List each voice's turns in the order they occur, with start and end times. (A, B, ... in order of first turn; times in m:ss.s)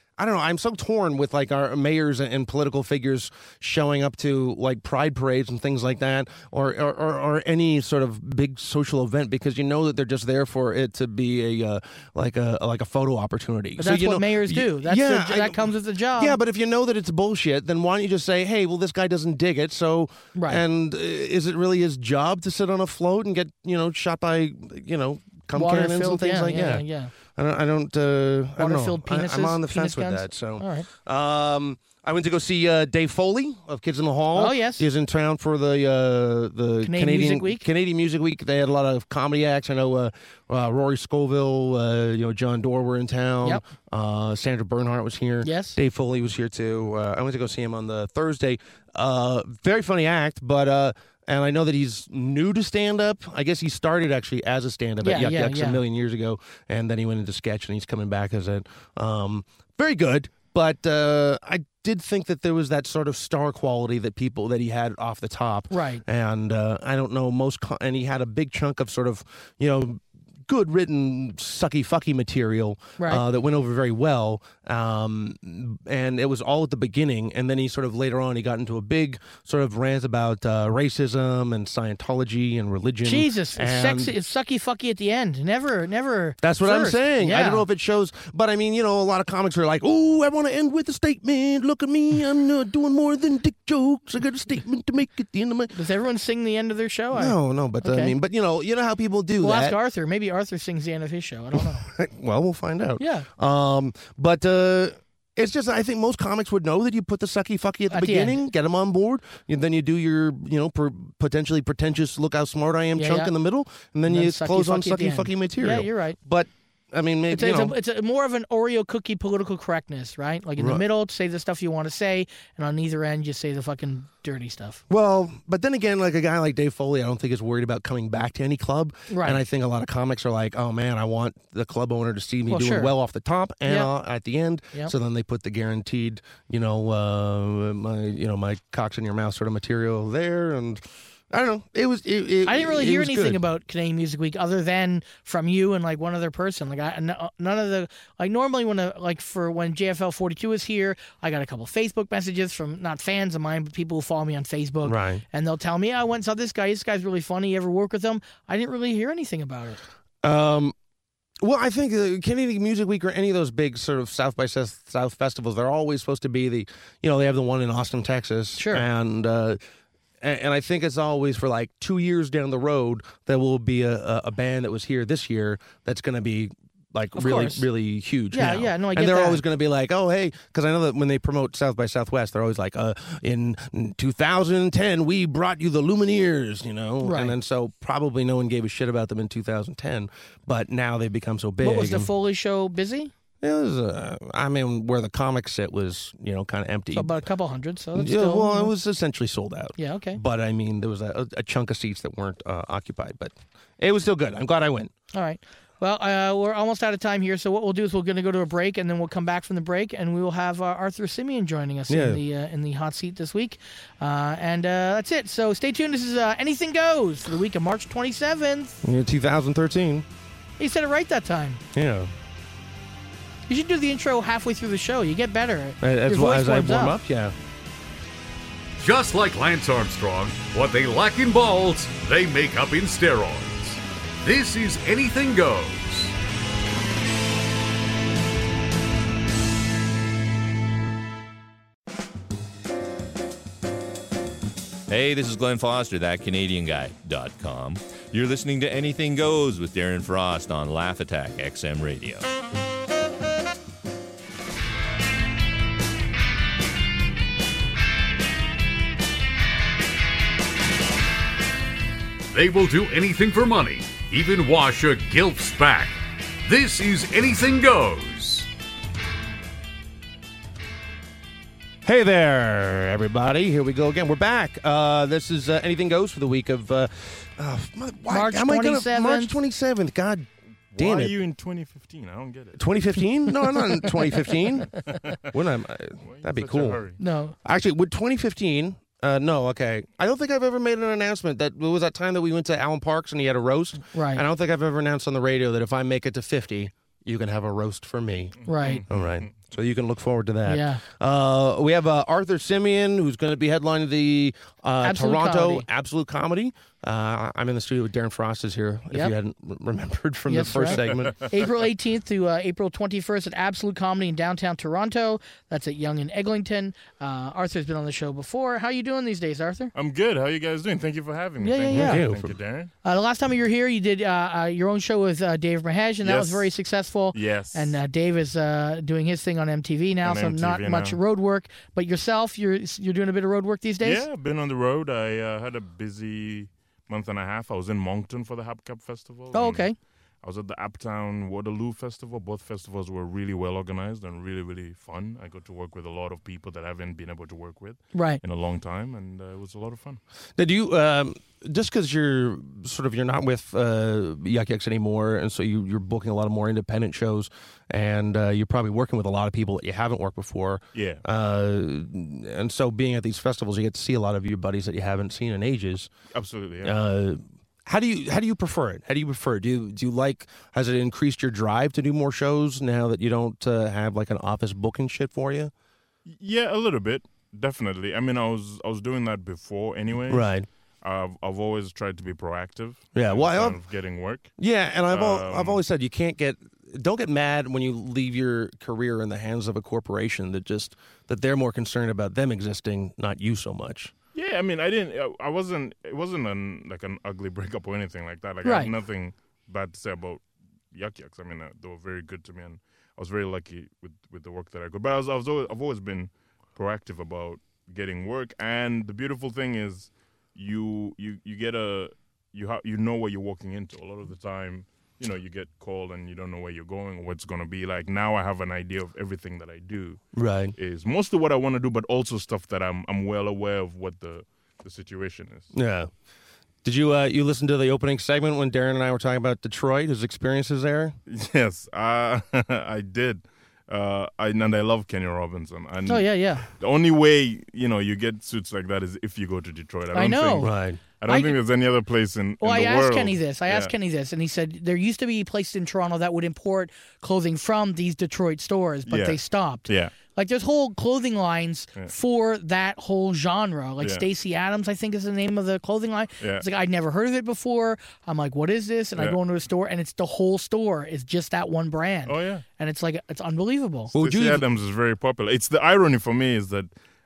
0:00.2-1:24.1 A
0:13.8-0:16.4 B
0:20.3-0:20.6 B
0:25.5-0:27.1 B
0:28.6-0:30.9 B
0:34.3-0:34.8 B
0:36.8-0:37.6 B
0:45.4-0:45.8 B
0:55.0-0:55.8 B
1:05.7-1:06.0 B
1:23.0-1:27.6 B
1:26.4-1:35.7 A
1:35.7-1:38.1 B
1:37.1-1:39.8 A
1:39.4-1:41.8 B
1:41.6-1:57.8 A
1:43.0-1:43.3 B
1:47.9-1:48.4 B
1:52.9-1:53.3 B
1:54.1-1:56.2 B
1:57.3-2:04.8 B
2:00.6-2:00.8 A
2:04.9-2:23.4 A
2:09.1-2:09.4 B
2:12.5-2:12.9 B
2:22.4-2:39.8 B
2:34.8-2:35.2 A
2:40.2-2:40.7 A
2:41.4-2:49.6 A
2:48.6-2:48.8 B
2:50.2-3:12.1 A
2:57.2-2:57.6 B
2:58.3-2:59.4 B
3:07.0-3:07.3 B
3:11.6-3:13.1 B
3:13.4-3:17.1 A
3:16.9-3:18.7 B
3:17.9-3:24.9 A
3:19.8-3:20.2 B
3:25.1-3:38.8 B
3:31.9-3:32.2 A
3:38.8-3:40.0 A
3:40.6-3:41.6 B
3:41.7-3:42.1 A
3:43.5-3:47.0 B
3:45.8-3:47.3 A
3:48.8-3:56.1 C
4:04.9-4:12.3 D
4:22.3-4:25.9 C
4:26.4-4:28.5 C
4:31.8-4:41.1 A
4:38.1-4:39.3 B
4:40.7-4:42.6 E
4:42.6-4:46.8 A
4:44.8-4:45.2 E
4:46.0-4:47.0 E
4:47.0-4:47.3 B
4:47.4-5:11.2 A
4:53.9-4:54.2 B
4:58.4-4:58.8 B
5:00.4-5:00.8 B
5:04.8-5:05.6 B
5:10.3-5:19.7 B
5:10.8-5:11.1 E
5:19.7-5:22.7 E
5:21.4-5:22.0 B
5:21.7-5:22.3 A
5:22.8-5:34.0 B
5:26.0-5:26.5 E
5:27.1-5:27.8 E
5:30.0-5:31.0 E
5:33.8-5:39.7 E
5:39.3-5:39.7 B
5:40.2-5:50.0 E
5:47.9-5:48.2 B
5:50.4-6:05.9 A
6:00.7-6:01.0 E
6:06.1-6:06.8 E
6:06.6-6:15.5 A
6:16.1-6:20.3 E
6:20.1-6:20.5 A
6:20.8-6:24.3 E
6:22.9-6:23.6 A
6:24.4-6:33.9 A
6:24.9-6:25.6 E
6:34.1-6:40.2 E
6:38.4-6:38.7 B
6:40.7-7:00.0 E
7:00.2-7:00.5 A
7:00.6-7:05.5 E
7:05.5-7:05.9 A
7:06.6-7:10.9 A
7:11.1-7:23.7 E
7:15.9-7:16.4 B
7:19.9-7:20.5 B
7:20.4-7:20.8 A
7:21.1-7:21.4 B
7:22.4-7:43.9 B
7:28.9-7:29.9 E
7:36.2-7:36.4 E
7:42.1-7:42.4 E
7:43.9-7:44.4 A
7:44.0-7:46.7 E